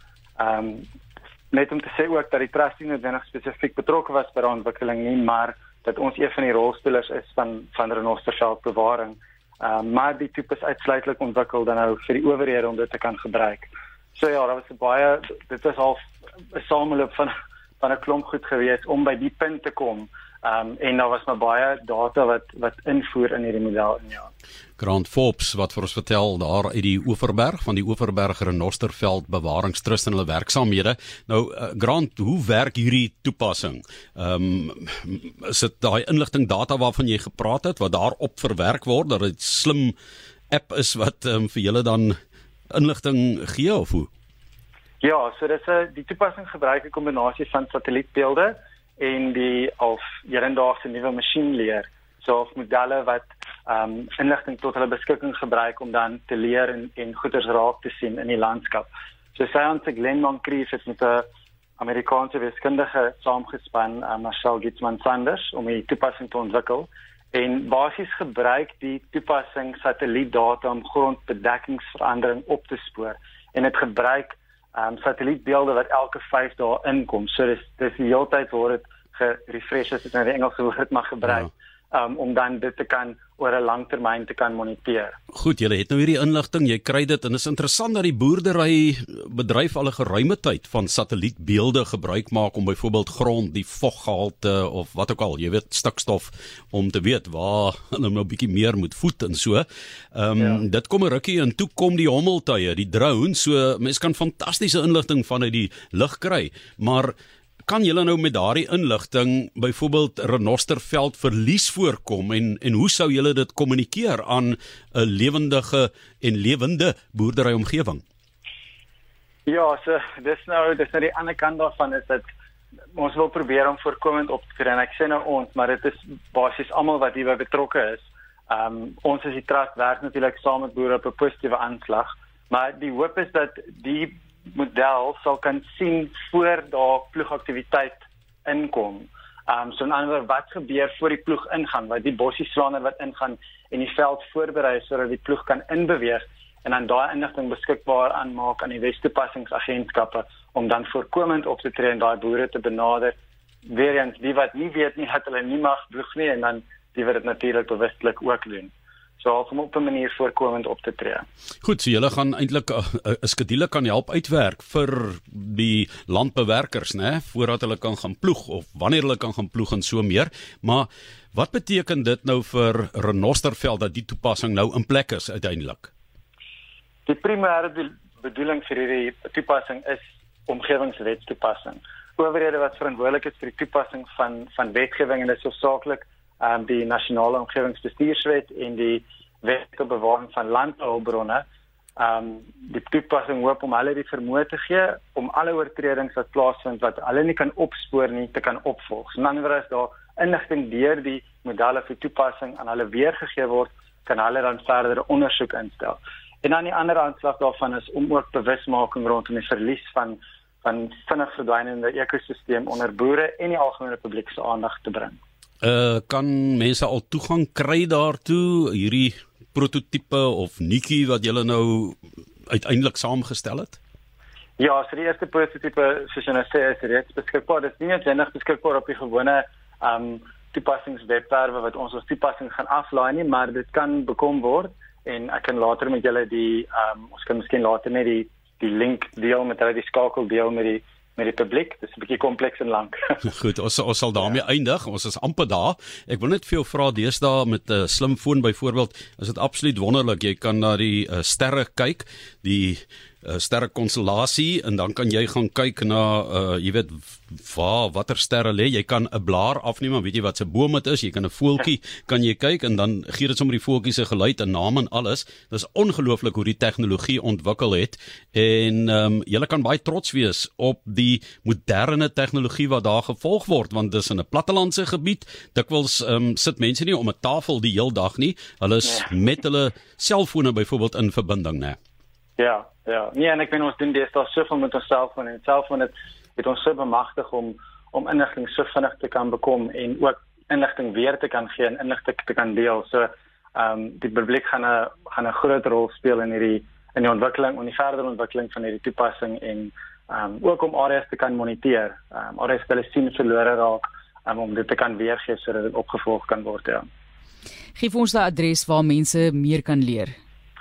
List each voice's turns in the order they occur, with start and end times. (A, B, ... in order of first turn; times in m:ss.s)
0:00.4-0:00.9 A
0:01.5-0:24.3 A
0:24.8-0:39.9 B
0:40.5-0:42.2 B
0:42.7-0:44.1 B
0:45.0-1:01.3 A
1:01.8-1:25.2 A
1:25.3-1:47.1 B
1:47.7-1:58.0 B
1:59.4-2:02.3 A
2:02.9-2:41.2 A
2:41.6-2:55.9 B
2:57.1-3:11.4 A
3:12.0-3:35.2 A
3:35.6-3:42.0 B
3:42.5-3:43.8 B
3:44.6-4:03.2 A
4:03.3-4:41.8 B
4:42.4-5:06.9 A
5:07.8-5:10.1 C